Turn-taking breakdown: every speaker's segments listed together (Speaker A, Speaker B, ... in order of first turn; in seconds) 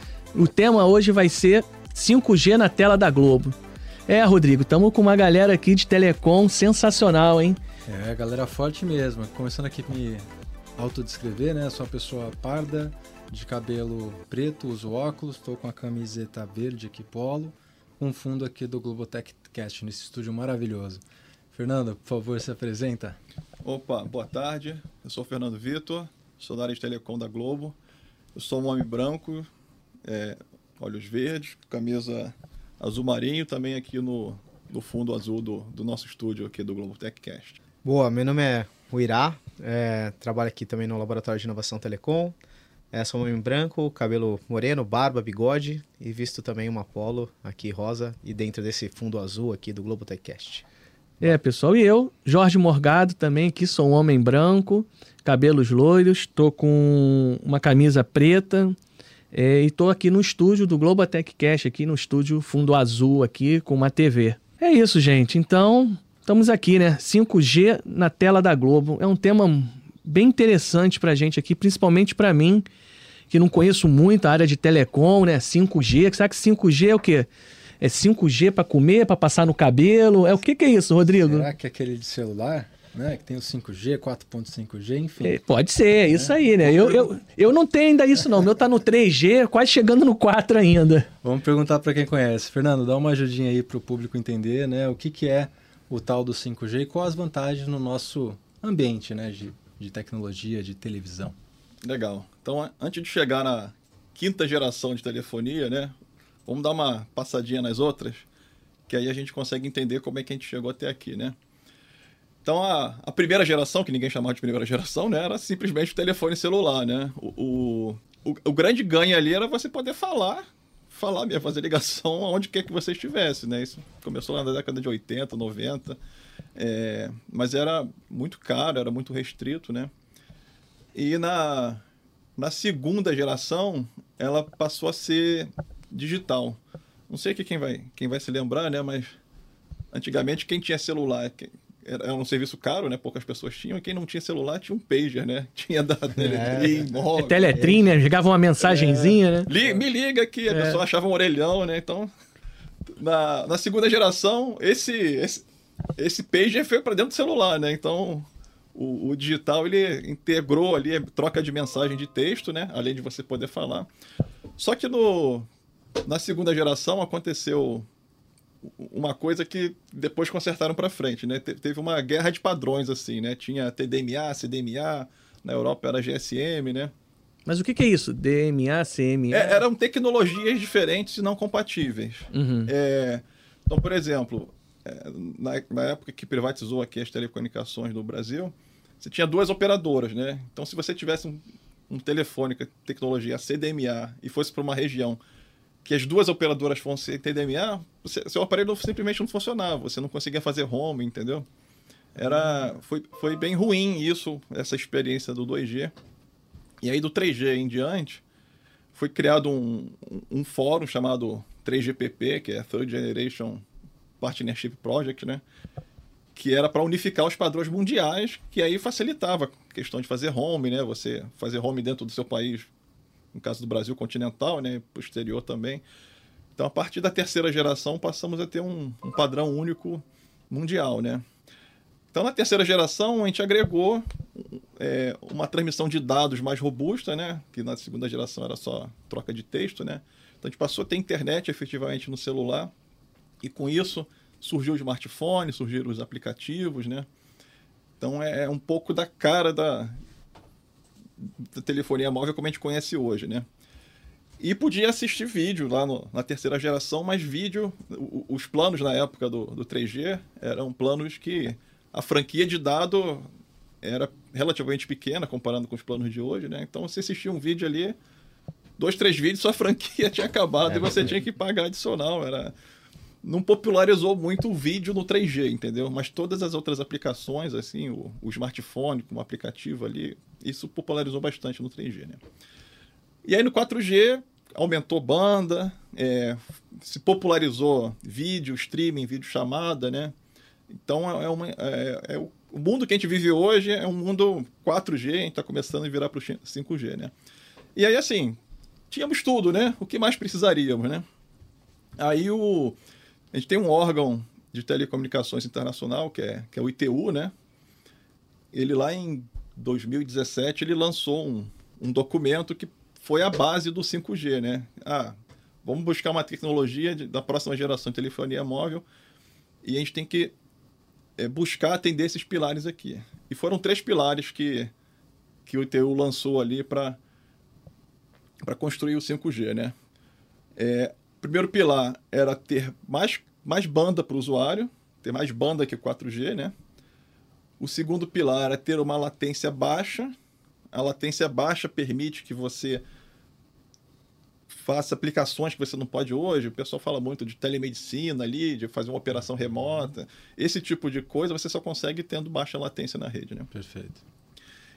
Speaker A: 0.3-3.6, 4.1-7.6, 51.2-58.8, 59.3-72.7, 73.3-77.3, 77.8-81.5, 85.2-91.1, 147.1-149.5, 150.5-150.8, 177.5-179.6, 182.3-182.7, 202.2-202.7
Speaker B: 7.8-23.2, 81.2-85.4, 86.1-86.9, 91.2-101.3, 353.5-354.0
Speaker C: 23.6-27.7, 28.3-29.5, 30.0-37.6, 101.8-105.9, 106.5-108.2, 108.9-111.3, 112.4-126.0, 126.5-129.9, 130.9-131.8, 132.4-136.6, 137.1-139.1, 139.9-147.6, 148.6-152.1, 152.9-155.4, 156.0-163.9, 164.6-165.5, 166.0-167.8, 168.6-176.9, 179.3-195.2, 195.8-201.5, 202.2-205.9, 206.8-208.2, 208.9-213.6, 214.2-215.4, 216.3-222.7, 223.3-225.8, 226.6-231.2, 232.1-242.7, 243.4-247.1, 248.0-249.9, 251.2-253.4, 254.4-263.3, 263.8-267.9, 268.8-272.5, 273.2-282.2, 283.2-290.1, 290.7-297.1, 297.8-298.4, 298.9-301.0, 302.0-302.8, 303.3-307.3, 308.5-318.8, 319.6-320.3, 321.2-324.7, 325.4-327.0, 328.4-329.7, 330.6-336.5, 337.6-340.1, 340.7-342.8, 344.5-353.5
Speaker D: 37.8-42.4, 42.9-50.6, 146.2-146.9, 270.7-271.1